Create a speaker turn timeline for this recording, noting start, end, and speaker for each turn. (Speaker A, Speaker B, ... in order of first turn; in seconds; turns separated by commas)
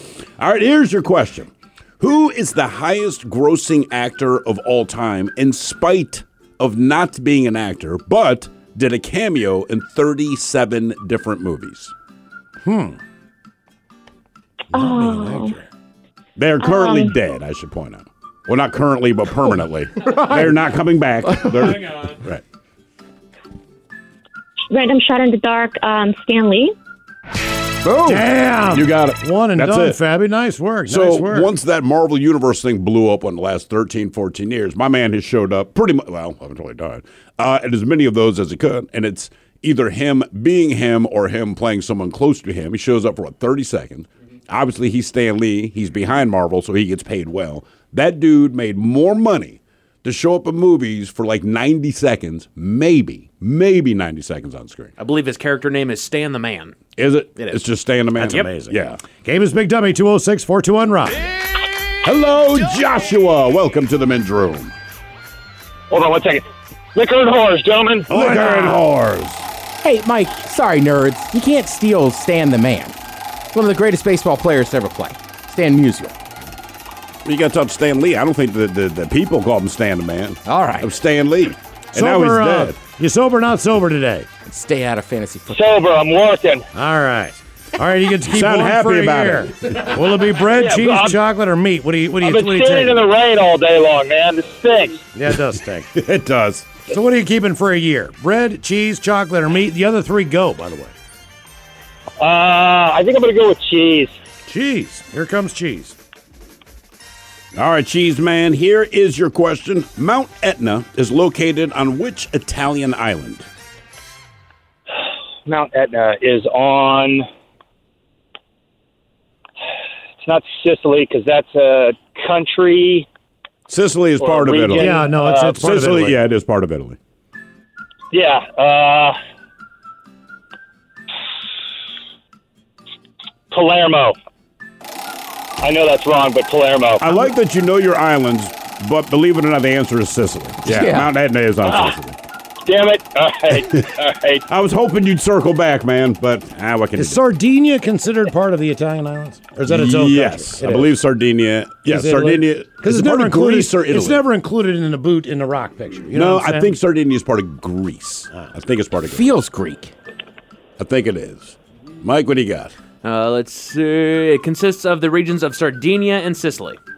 Speaker A: 0.4-11.9, Speaker B: 12.7-13.0, Speaker B: 14.7-15.6, Speaker C: 14.7-15.6, Speaker A: 16.4-22.4, Speaker C: 16.6-17.1, Speaker D: 20.1-20.5, Speaker D: 21.3-21.6, Speaker C: 24.7-26.8, Speaker D: 27.9-28.2, Speaker B: 28.1-31.5, Speaker A: 28.7-30.0, Speaker A: 30.9-54.9, Speaker E: 55.0-56.8, Speaker A: 57.0-59.0, Speaker E: 58.2-58.7, Speaker B: 59.0-61.2, Speaker A: 62.0-64.7, Speaker F: 65.9-68.1, Speaker A: 68.1-69.5, Speaker B: 68.1-68.8, Speaker D: 69.8-73.0, Speaker D: 73.5-76.2, Speaker A: 77.2-82.8, Speaker D: 80.5-80.9, Speaker B: 81.9-84.3, Speaker D: 84.5-85.6, Speaker F: 85.5-86.7, Speaker B: 86.7-93.0, Speaker A: 88.2-89.9, Speaker F: 90.5-91.2, Speaker F: 92.2-95.0, Speaker B: 95.1-96.0, Speaker A: 95.9-96.8, Speaker B: 96.9-100.9, Speaker F: 102.2-104.2, Speaker B: 104.5-106.0, Speaker A: 107.5-113.5, Speaker F: 115.5-117.3, Speaker F: 120.2-123.1, Speaker A: 123.7-127.0, Speaker F: 124.2-125.6, Speaker B: 124.7-126.2, Speaker F: 128.1-129.2, Speaker F: 133.5-134.2, Speaker F: 135.6-137.1, Speaker A: 137.0-142.2, Speaker D: 140.6-141.1, Speaker F: 141.6-141.9, Speaker F: 142.7-144.4, Speaker A: 143.5-143.9, Speaker A: 144.5-147.2, Speaker B: 146.9-150.9, Speaker A: 149.7-154.2, Speaker B: 151.8-156.7, Speaker A: 156.1-159.2, Speaker D: 159.1-159.9, Speaker A: 160.8-162.7, Speaker E: 163.0-166.8